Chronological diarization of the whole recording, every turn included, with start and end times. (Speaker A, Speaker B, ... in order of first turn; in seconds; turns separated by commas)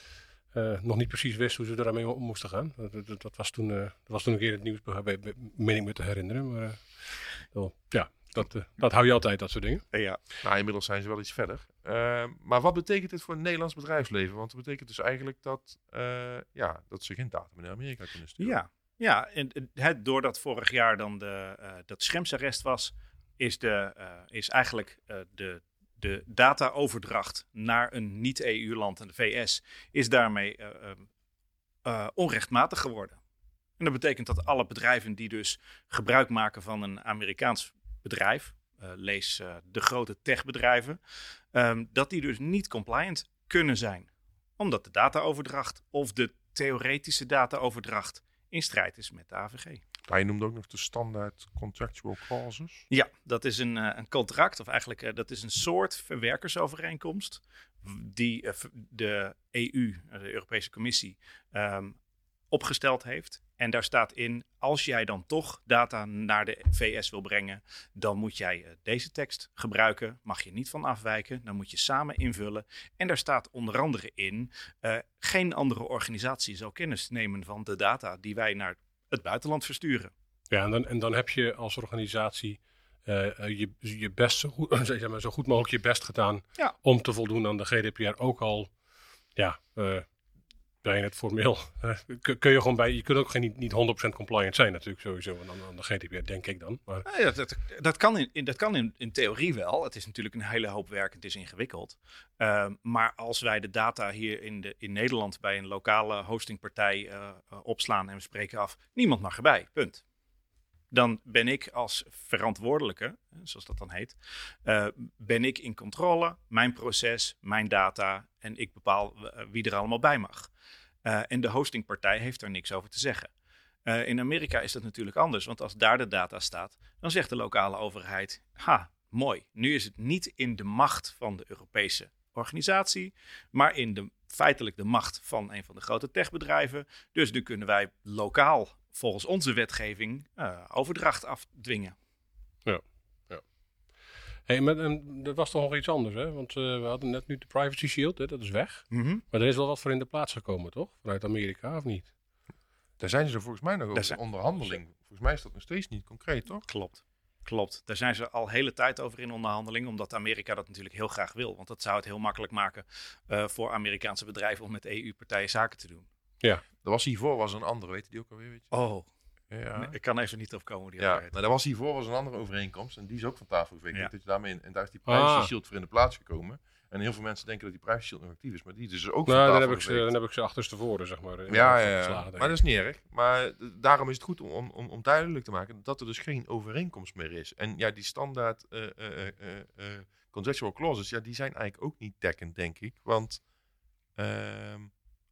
Speaker A: 0.5-9.8, Speaker B: 9.9-10.2, Speaker C: 10.4-18.6, Speaker B: 18.4-31.1, Speaker B: 31.8-33.2, Speaker B: 33.8-41.0, Speaker B: 41.5-49.8, Speaker C: 50.1-52.9, Speaker B: 52.9-62.0, Speaker B: 62.5-80.1, Speaker A: 80.5-88.7, Speaker A: 89.3-90.0, Speaker A: 90.8-97.0, Speaker B: 97.0-110.0, Speaker B: 110.9-120.5, Speaker B: 121.0-123.3, Speaker B: 123.8-141.9, Speaker A: 142.6-143.4, Speaker A: 144.5-152.1, Speaker B: 148.9-149.2, Speaker C: 153.0-156.6, Speaker B: 156.7-166.1, Speaker C: 166.8-168.7, Speaker B: 168.7-169.1, Speaker C: 169.5-169.9, Speaker B: 169.7-171.3, Speaker C: 171.0-180.1, Speaker A: 175.1-175.5, Speaker A: 179.3-182.5, Speaker C: 181.5-193.4, Speaker C: 194.2-194.9